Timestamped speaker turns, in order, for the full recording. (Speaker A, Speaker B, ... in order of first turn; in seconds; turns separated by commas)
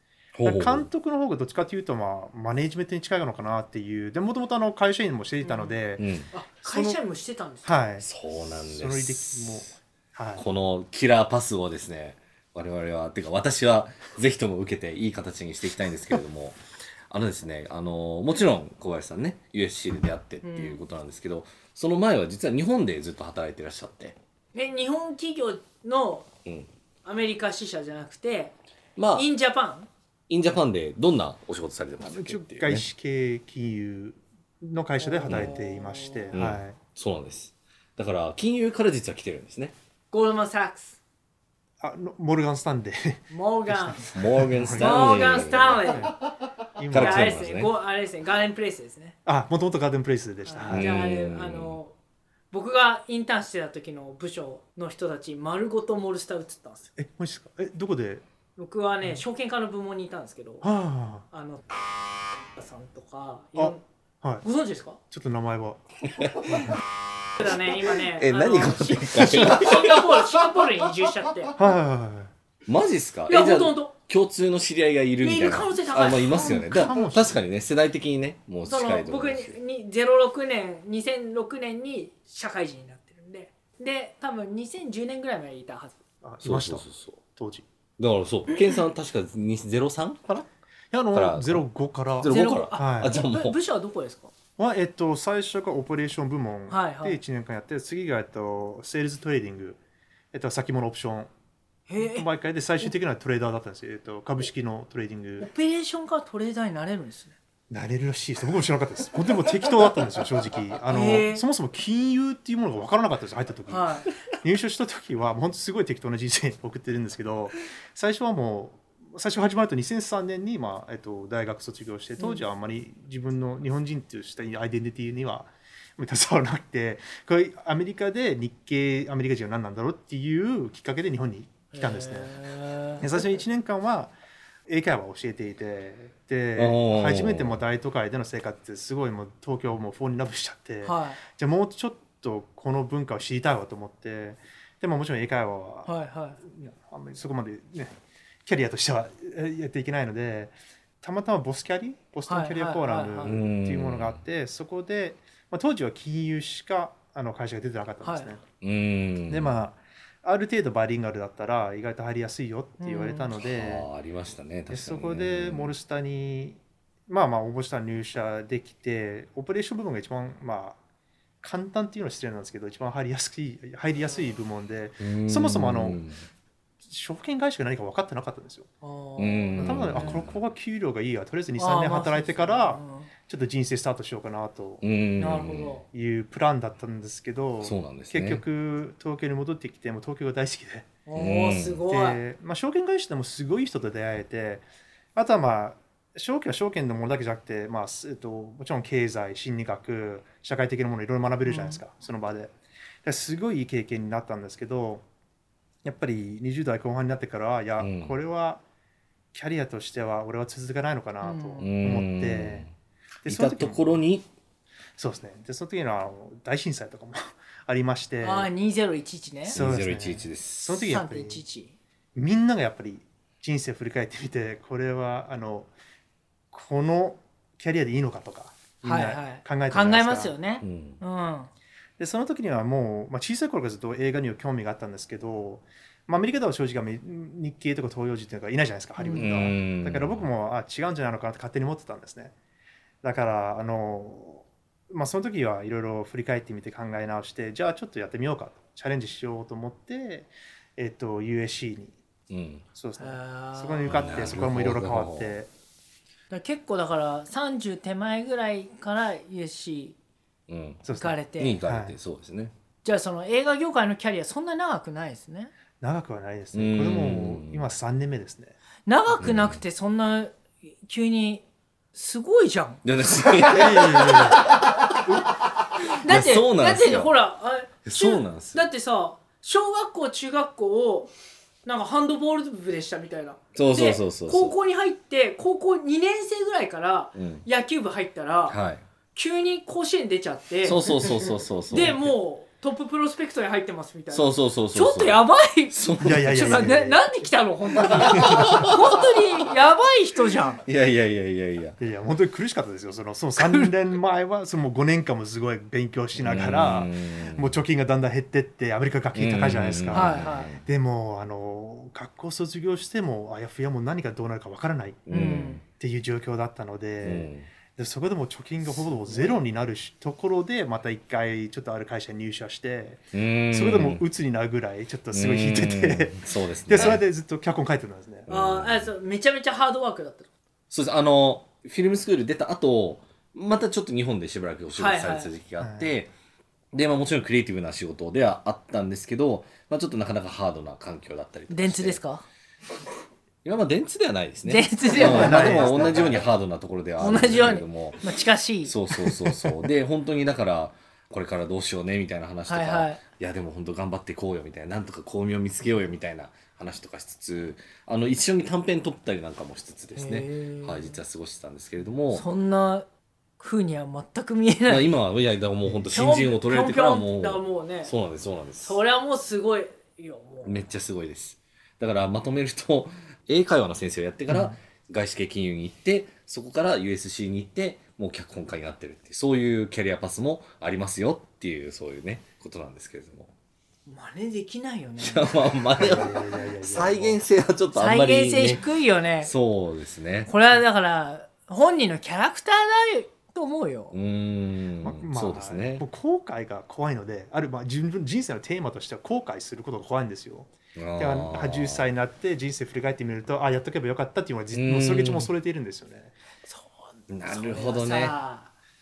Speaker A: 0.4-0.9, Speaker B: 0.4-6.1, Speaker C: 5.4-5.8, Speaker A: 6.0-6.3, Speaker C: 6.3-7.8, Speaker B: 6.6-7.0, Speaker B: 7.7-10.4, Speaker A: 8.0-9.7, Speaker A: 10.4-16.6, Speaker A: 17.1-24.2, Speaker C: 20.4-20.8, Speaker C: 24.5-26.3, Speaker C: 27.1-28.5, Speaker A: 29.0-29.3, Speaker C: 29.1-29.9, Speaker A: 30.3-32.9, Speaker B: 32.0-36.8, Speaker C: 35.0-36.3, Speaker A: 36.3-39.7, Speaker C: 40.1-41.0, Speaker B: 41.8-46.1, Speaker C: 43.3-44.1, Speaker A: 44.1-46.1, Speaker C: 44.8-46.1, Speaker B: 46.8-47.5, Speaker A: 46.9-47.7, Speaker C: 46.9-49.2, Speaker B: 49.3-50.9, Speaker C: 50.5-51.9, Speaker A: 50.7-51.8, Speaker C: 52.5-56.9, Speaker B: 57.0-58.2, Speaker C: 58.6-60.7, Speaker B: 60.6-61.3, Speaker C: 61.3-61.6, Speaker C: 62.5-63.8, Speaker B: 63.6-64.5, Speaker C: 64.4-65.0, Speaker B: 65.1-66.8, Speaker A: 66.1-66.8, Speaker C: 67.4-71.6, Speaker A: 68.2-70.3, Speaker B: 71.6-72.3, Speaker A: 72.7-79.6, Speaker C: 73.3-73.9, Speaker C: 75.2-76.6, Speaker B: 76.3-77.4, Speaker C: 78.7-85.9, Speaker B: 86.2-86.8, Speaker A: 86.4-87.2, Speaker B: 87.4-87.7, Speaker A: 88.0-90.5, Speaker B: 90.9-93.2, Speaker A: 91.1-91.7, Speaker A: 92.2-93.6, Speaker C: 92.2-94.3, Speaker B: 94.6-99.8, Speaker C: 96.7-97.2, Speaker B: 100.3-101.3, Speaker C: 101.9-102.3, Speaker B: 102.0-105.5, Speaker C: 105.4-107.3, Speaker B: 107.7-132.3, Speaker C: 110.9-111.4, Speaker C: 113.7-114.1, Speaker C: 131.7-133.1, Speaker B: 133.0-134.1, Speaker B: 134.7-145.9, Speaker A: 136.6-137.6, Speaker C: 140.8-141.2, Speaker C: 145.9-146.4, Speaker B: 146.4-158.4, Speaker C: 152.3-153.4, Speaker A: 153.2-154.2, Speaker C: 158.0-158.3, Speaker A: 158.6-159.5, Speaker B: 159.3-163.9, Speaker C: 162.8-163.3, Speaker A: 163.4-165.7, Speaker B: 164.7-170.8, Speaker B: 171.4-176.0, Speaker A: 175.0-176.2, Speaker B: 176.8-178.7, Speaker C: 178.8-180.2, Speaker A: 179.2-180.4, Speaker B: 179.6-184.8, Speaker C: 181.6-183.1, Speaker A: 184.8-185.8, Speaker C: 185.2-185.8, Speaker B: 185.9-190.9, Speaker A: 187.6-188.4, Speaker C: 191.1-192.2, Speaker A: 191.1-191.8, Speaker B: 191.8-194.6, Speaker B: 195.2-202.5, Speaker C: 201.4-201.8, Speaker B: 203.0-205.1, Speaker B: 205.8-208.6, Speaker A: 207.8-208.2, Speaker B: 209.3-212.7, Speaker C: 211.2-211.7, Speaker A: 211.6-212.7, Speaker B: 213.2-214.0, Speaker A: 213.2-214.3, Speaker B: 215.0-218.5, Speaker C: 218.2-219.6, Speaker A: 219.5-220.9, Speaker B: 219.5-221.4, Speaker C: 220.9-221.8, Speaker B: 222.2-225.7, Speaker B: 226.5-230.3, Speaker C: 228.8-231.5, Speaker A: 230.6-231.0, Speaker B: 232.0-242.3, Speaker C: 239.0-239.3, Speaker A: 239.2-240.2, Speaker B: 243.0-251.9, Speaker A: 252.3-252.7, Speaker B: 252.8-255.5, Speaker C: 253.0-254.2, Speaker A: 253.9-255.4, Speaker C: 256.3-260.0, Speaker A: 260.5-260.9, Speaker B: 260.9-261.9, Speaker C: 260.9-261.6, Speaker A: 261.4-262.5, Speaker C: 262.8-265.5, Speaker B: 265.8-268.6, Speaker A: 266.5-267.7, Speaker C: 268.9-272.8, Speaker A: 269.2-269.6, Speaker A: 272.8-275.0, Speaker B: 273.3-274.5, Speaker C: 273.8-274.6, Speaker A: 275.7-277.1, Speaker C: 276.0-281.1, Speaker A: 277.9-278.7, Speaker C: 281.6-288.6, Speaker A: 283.6-284.6, Speaker A: 287.1-287.5, Speaker A: 288.5-288.8, Speaker C: 289.1-300.6, Speaker A: 290.6-292.0, Speaker B: 291.7-292.1, Speaker A: 294.1-296.8, Speaker B: 296.0-297.1, Speaker B: 297.9-298.7, Speaker A: 297.9-298.8, Speaker A: 300.7-301.8, Speaker B: 301.8-315.1, Speaker C: 303.4-303.7, Speaker A: 306.2-307.6, Speaker A: 309.1-310.6, Speaker C: 309.9-310.5, Speaker A: 315.1-315.6, Speaker C: 315.1-315.6, Speaker B: 315.7-328.3, Speaker A: 317.0-317.5, Speaker C: 318.7-319.4, Speaker A: 323.1-324.0, Speaker A: 325.1-327.0, Speaker A: 328.3-328.9, Speaker C: 328.3-330.3, Speaker A: 330.7-336.1, Speaker C: 334.8-335.3, Speaker B: 335.6-335.9, Speaker A: 336.7-342.0, Speaker C: 341.5-342.2, Speaker A: 343.4-348.1, Speaker C: 344.4-345.9, Speaker B: 344.9-346.3, Speaker C: 347.0-349.6, Speaker A: 348.6-362.3, Speaker C: 352.5-353.0, Speaker C: 359.9-361.0, Speaker C: 362.1-362.9, Speaker C: 363.4-364.9, Speaker A: 364.7-368.8, Speaker C: 365.9-367.9, Speaker C: 368.6-370.6, Speaker A: 370.4-383.3, Speaker B: 374.3-374.6, Speaker C: 383.9-385.4, Speaker A: 385.0-388.6, Speaker B: 385.8-387.2, Speaker C: 387.8-389.3, Speaker A: 389.2-390.3, Speaker C: 390.3-393.9, Speaker A: 393.9-395.9, Speaker B: 394.8-406.1, Speaker A: 400.8-401.9, Speaker A: 404.5-405.3, Speaker C: 406.5-408.5, Speaker A: 407.1-408.2